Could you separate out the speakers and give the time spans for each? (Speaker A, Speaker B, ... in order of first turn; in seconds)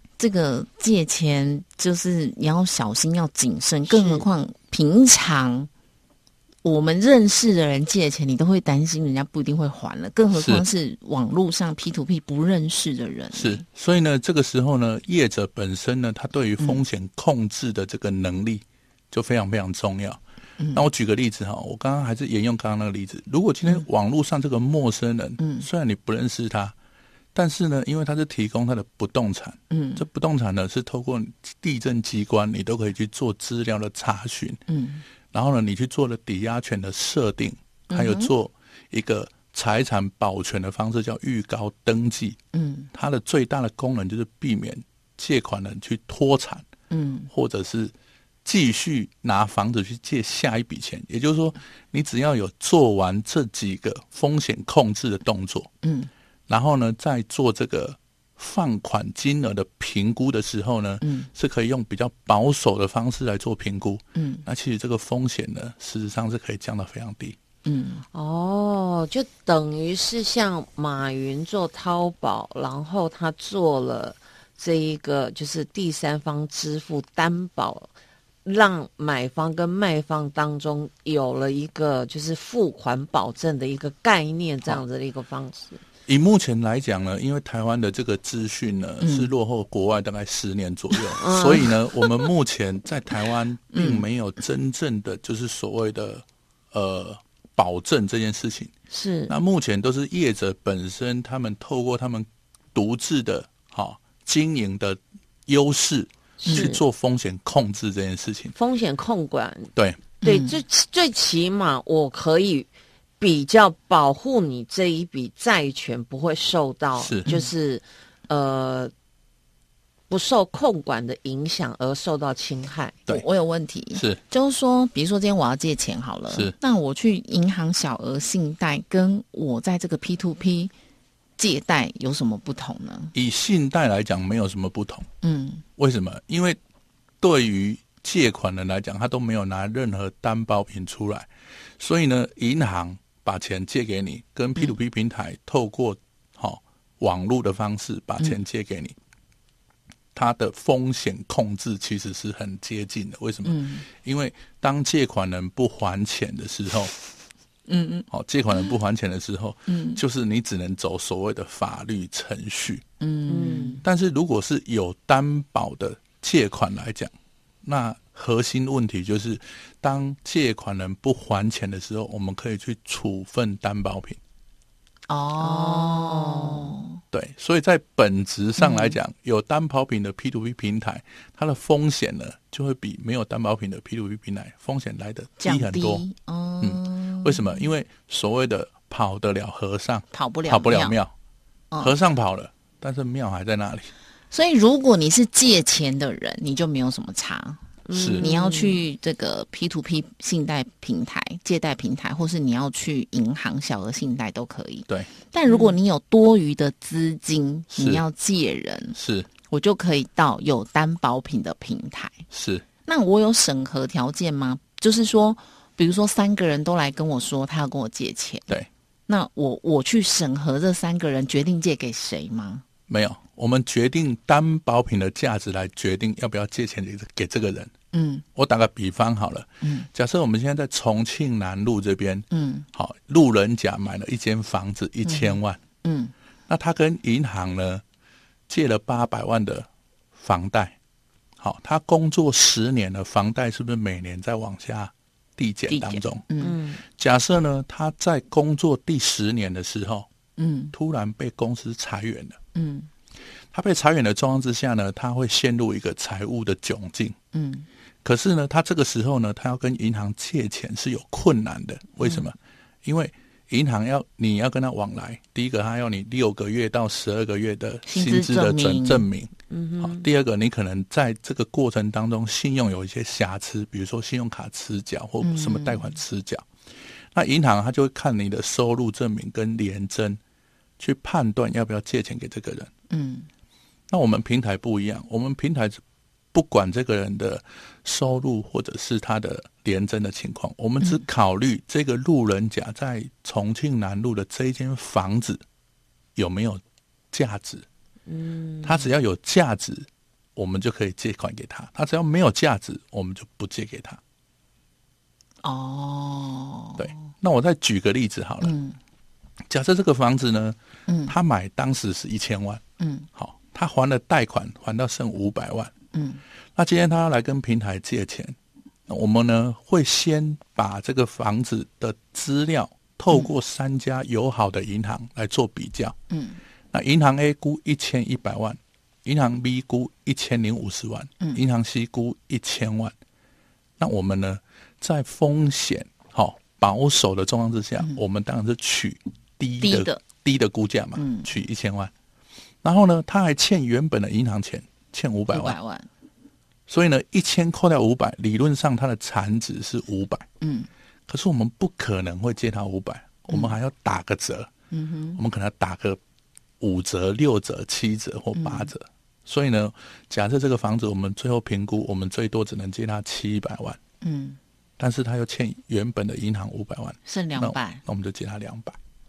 Speaker A: 0.2-5.7, 6.6-13.7, 20.6-20.9, 25.4-25.7, 29.7-30.0, 34.7-35.0, 37.9-38.3, 42.5-42.9, 46.9-47.3, 55.8-56.1, 61.0-61.3, 64.2-64.5, 67.7-68.0, 89.0-89.3, 93.7-94.1, 110.2-110.6, 123.1-130.7, 131.4-133.1, 135.2-135.6, 153.4-153.8, 157.7-158.1, 159.7-160.0, 163.0-163.8, 175.1-177.0, 178.6-179.0, 185.4-187.7, 190.1-191.0, 194.3-197.6, 198.2-209.0, 209.5-212.2, 212.9-218.6, 219.1-222.6, 227.9-228.2, 229.6-229.9, 232.3-232.7, 235.1-236.1, 245.7-246.6, 250.4-250.7, 252.6-252.9, 257.3-257.7, 267.9-269.1, 275.2-276.0, 282.9-283.3, 305.4-307.0, 308.4-308.8, 310.9-311.2, 312.8-313.1, 315.9-316.2, 326.1-326.4, 339.6-340.0, 341.0-341.3, 345.3-345.9, 350.4-350.7, 353.3-353.6, 354.7-355.2, 358.4-358.7, 364.0-364.4, 367.1-367.8
Speaker B: 10.3-10.6, 13.3-20.2, 20.7-26.8, 27.3-34.6, 35.3-42.4, 42.9-46.6, 47.3-47.9, 48.5-55.7, 56.5-67.4, 86.1-98.7, 99.3-108.5, 109.8-110.0, 117.0-117.3, 123.9-124.2, 133.1-135.1, 135.8-136.6, 137.2-148.9, 150.1-156.9, 158.1-162.8, 163.8-167.1, 167.6-174.2, 177.1-186.0, 186.6-191.1, 191.8-193.9, 197.9-198.3, 207.7-208.0, 209.0-209.3, 212.3-212.7, 222.9-227.7, 228.3-235.6, 236.5-237.8, 238.5-240.8, 241.4-246.3, 246.9-250.1, 250.7-252.4, 253.5-257.2, 258.0-276.4, 277.1-280.2, 280.8-282.7, 283.9-285.8, 286.3-295.4, 296.2-296.6, 297.1-297.7, 298.6-304.0, 306.8-308.5, 309.5-312.6, 313.1-315.7, 316.6-318.4, 318.9-326.0, 326.7-332.9, 333.8-341.9, 342.6-345.6, 346.7-350.3, 351.1-354.5, 355.1-356.0, 356.6-363.8, 364.8-368.8
Speaker C: 68.1-77.9, 78.5-85.8, 91.2-91.8, 98.9-99.3, 106.4-106.8, 108.5-109.7, 110.2-112.7, 113.2-118.9, 120.1-123.0, 163.3-163.8, 175.4-176.7, 197.9-198.8, 205.5-205.8, 246.4-246.8, 269.5-270.1, 298.1-298.9